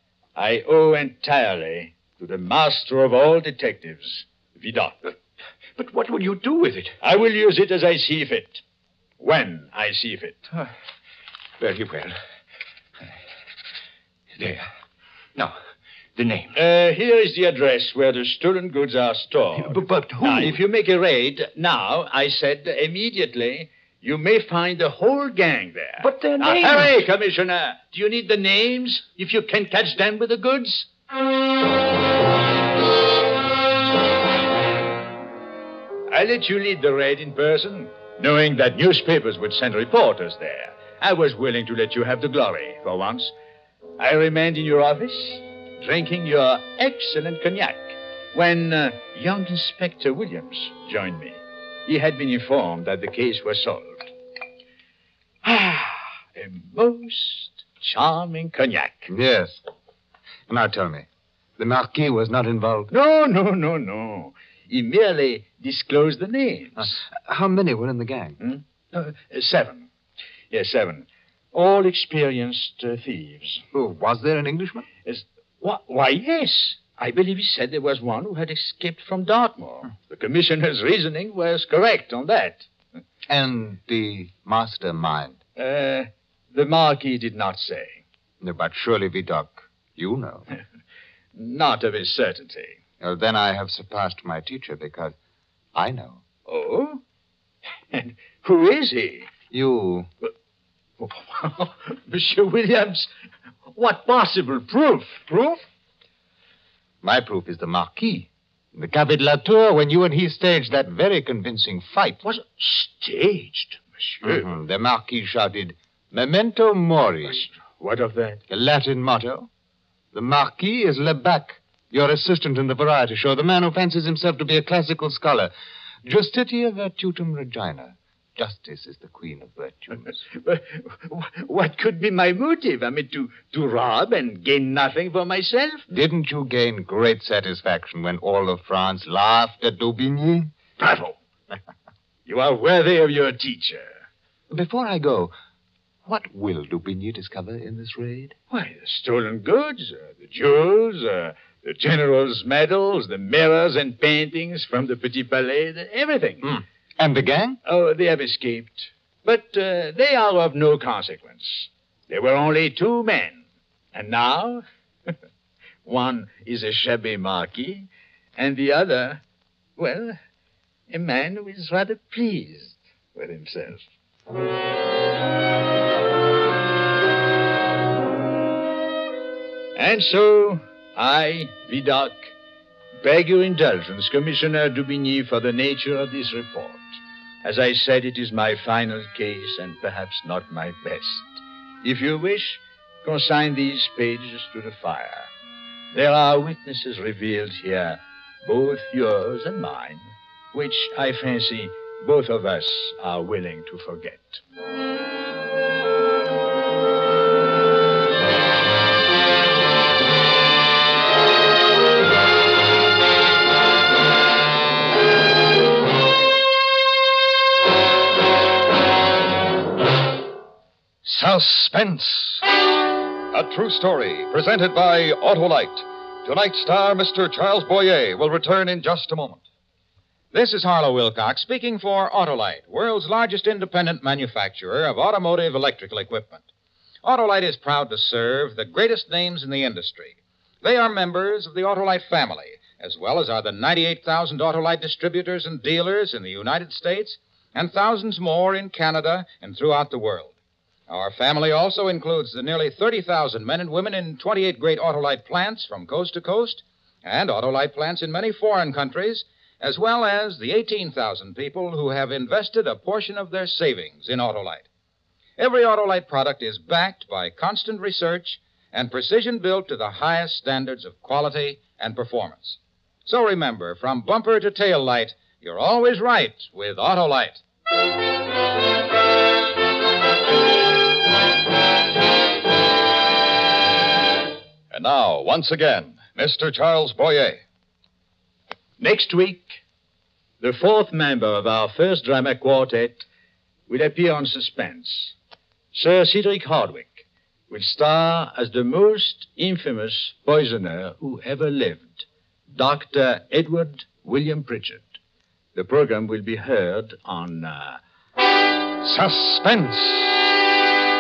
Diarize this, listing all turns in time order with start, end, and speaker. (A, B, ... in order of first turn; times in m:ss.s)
0:00.4-0:05.2 A
0:05.8-0:07.0 B
0:07.0-0:08.6 A
0:09.2-0:10.4 A
0:11.6-0:12.2 B
0:14.4-0:14.7 B
0:16.2-0:16.6 B
0:16.6-0:30.9 A
0:19.6-0:20.6 B
0:26.0-0:27.0 B
0:36.1-0:43.3 A
0:44.0-0:54.1 A
0:55.4-0:59.1 A
0:59.1-0:59.6 C
1:00.5-1:02.9 C
1:02.9-1:07.0 A
1:06.8-1:08.4 C
1:08.4-1:09.9 A
1:10.5-1:13.6 A
1:13.7-1:14.9 C
1:15.0-1:22.7 A
1:23.3-1:25.4 C
1:25.6-1:28.0 A
1:28.4-1:30.5 C
1:31.4-1:32.8 A
1:33.0-1:35.2 C
1:35.7-1:36.2 C
1:36.5-1:37.0 A
1:37.9-1:39.3 A
1:39.5-1:40.1 C
1:41.0-1:43.1 A
1:43.8-1:45.6 A
1:47.0-1:52.2 C
1:52.2-1:54.5 A
1:54.2-1:57.5 C
1:57.4-1:58.4 A
1:58.5-1:59.5 C
2:00.1-2:05.5 C
2:06.0-2:10.2 C
2:10.4-2:15.9 A
2:15.9-2:20.5 C
2:20.8-2:21.2 A
2:22.3-2:24.0 A
2:24.5-2:25.3 C
2:26.1-2:28.4 C
2:28.5-2:36.6 A
2:36.4-2:37.6 C
2:37.6-2:45.1 A
2:45.8-2:49.2 A
2:49.8-2:50.2 A
2:50.9-2:53.9 A
2:59.8-3:02.3 A
3:03.0-3:15.3 A
3:15.9-3:24.4 A
3:41.0-3:42.4 D
3:43.3-3:49.4 D
3:50.3-3:56.4 E
3:57.0-4:10.3 E
4:10.9-4:24.7 E
4:25.4-4:37.4 E
4:44.7-4:47.4 D
4:48.8-4:49.6 A
4:50.4-4:53.0 A
4:53.7-4:55.2 A
4:55.7-5:05.0 A
5:05.6-5:07.8 A
5:08.8-5:10.4 D